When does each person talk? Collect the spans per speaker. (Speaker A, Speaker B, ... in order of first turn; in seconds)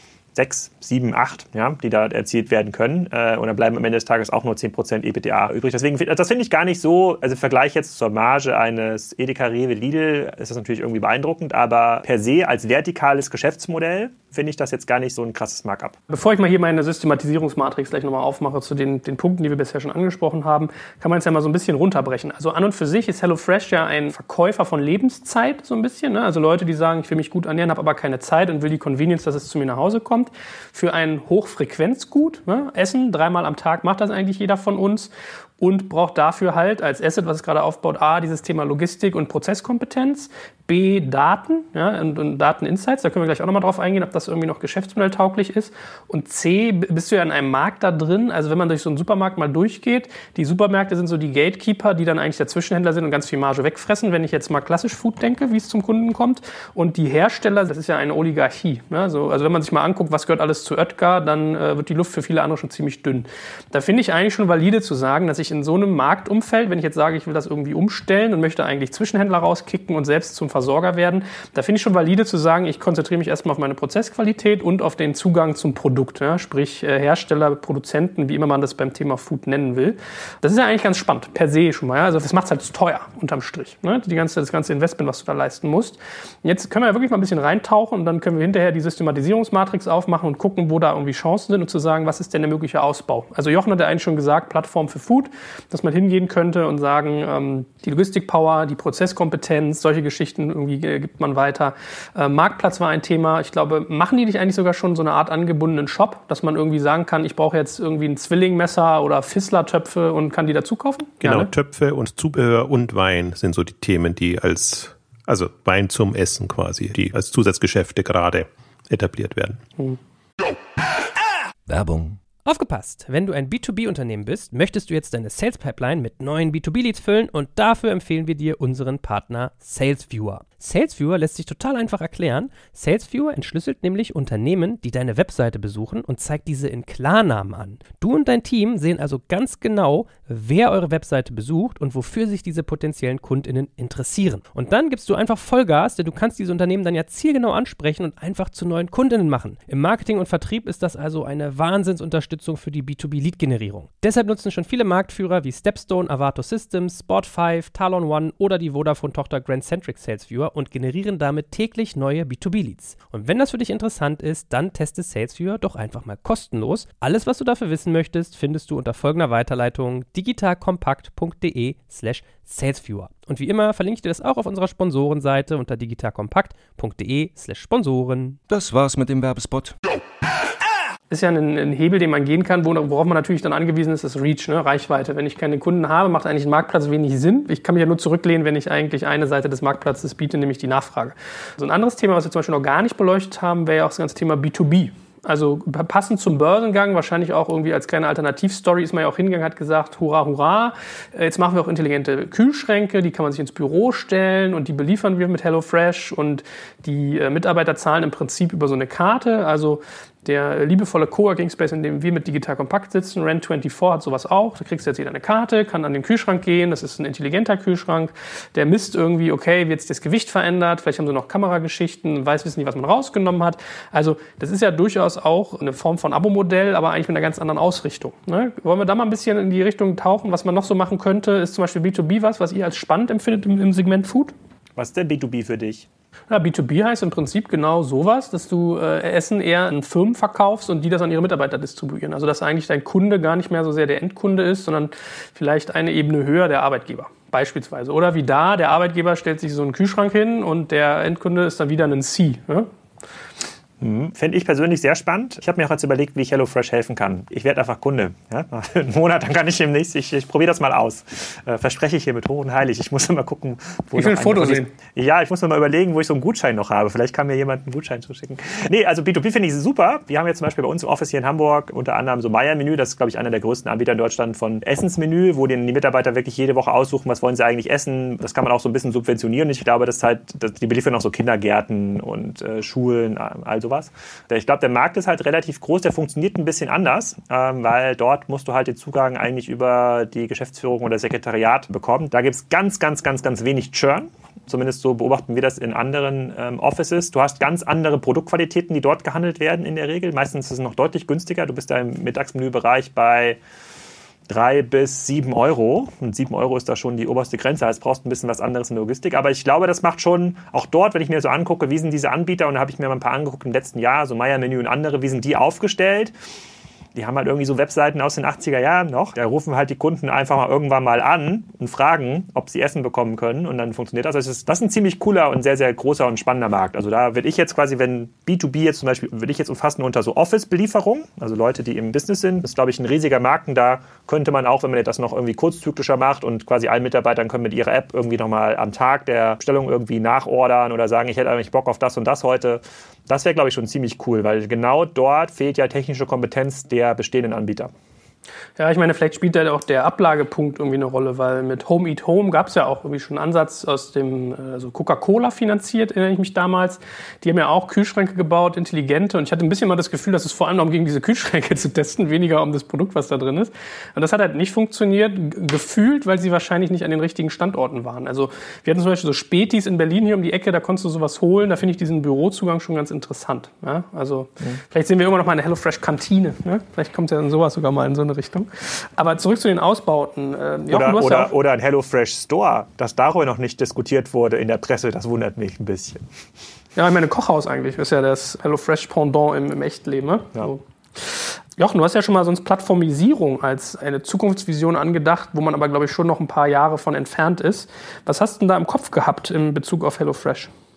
Speaker A: 0.3-16.0, 234.8-235.9, 253.8-303.4, 304.3-316.1, 316.9-347.7, 380.7-386.0
Speaker B: 16.1-111.5, 181.1-234.3, 236.3-252.7, 263.9-264.7, 348.6-381.3, 386.8-390.6, 391.1-400.5
Speaker C: 111.2-119.6
Speaker D: 121.7-122.2, 178.5-179.8
Speaker E: 122.5-178.4